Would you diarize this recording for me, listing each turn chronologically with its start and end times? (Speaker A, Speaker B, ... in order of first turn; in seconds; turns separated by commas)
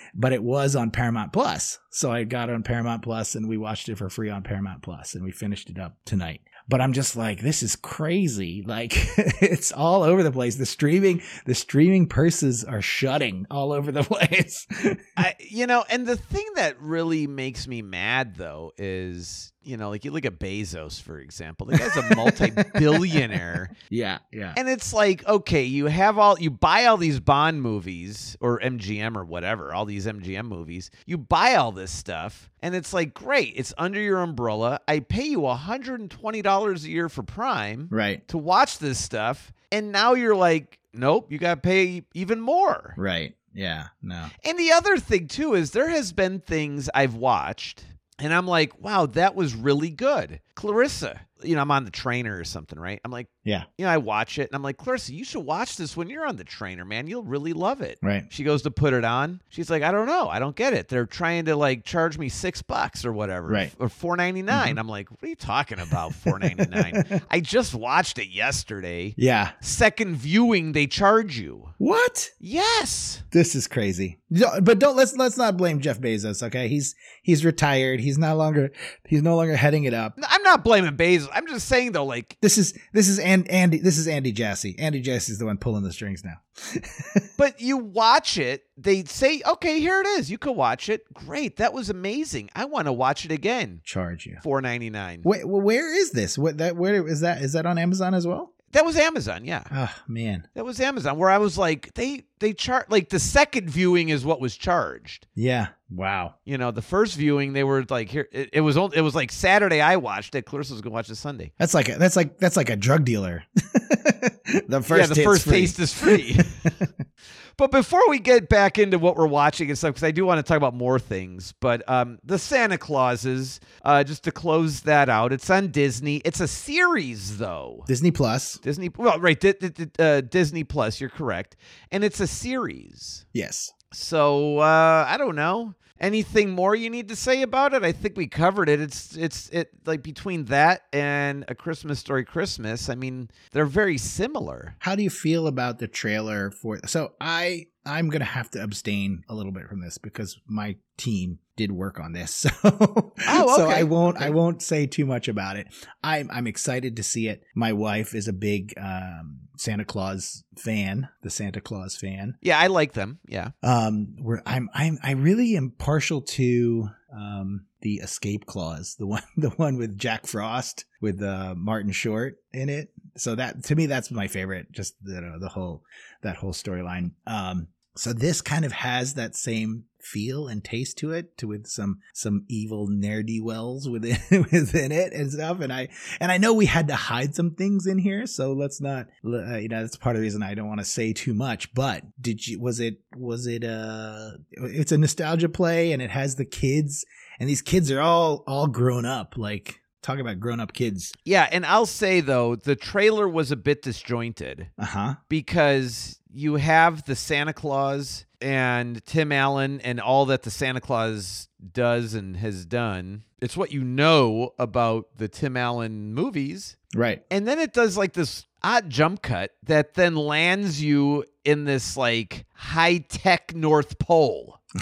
Speaker A: 0.1-15.2, Speaker B: 15.2-23.7, Speaker A: 21.7-23.3, Speaker A: 23.9-24.6, Speaker B: 24.6-43.0, Speaker A: 37.9-38.2, Speaker A: 43.0-44.3, Speaker B: 44.4-71.7, Speaker A: 58.0-58.3, Speaker A: 63.5-63.7, Speaker A: 64.5-64.8, Speaker A: 66.2-67.2, Speaker A: 69.2-69.5, Speaker A: 71.8-72.3, Speaker B: 72.4-73.2, Speaker A: 73.3-80.1, Speaker B: 80.2-82.4, Speaker A: 82.4-87.3, Speaker B: 87.4-93.8, Speaker A: 93.8-94.4, Speaker B: 94.4-95.2, Speaker A: 95.2-98.5, Speaker B: 98.7-99.7, Speaker A: 99.7-100.5, Speaker B: 100.5-105.2, Speaker A: 105.3-106.3, Speaker B: 106.5-111.5, Speaker A: 111.6-116.9, Speaker B: 114.9-116.7, Speaker B: 117.6-127.9, Speaker A: 127.9-128.6, Speaker B: 128.6-133.2, Speaker A: 133.3-133.7, Speaker B: 133.9-144.8, Speaker A: 144.8-162.4, Speaker B: 153.3-154.3, Speaker B: 162.4-163.5, Speaker A: 163.6-201.1, Speaker B: 201.2-204.7, Speaker A: 204.8-205.2, Speaker B: 205.3-216.8, Speaker A: 216.9-217.2, Speaker B: 217.3-224.6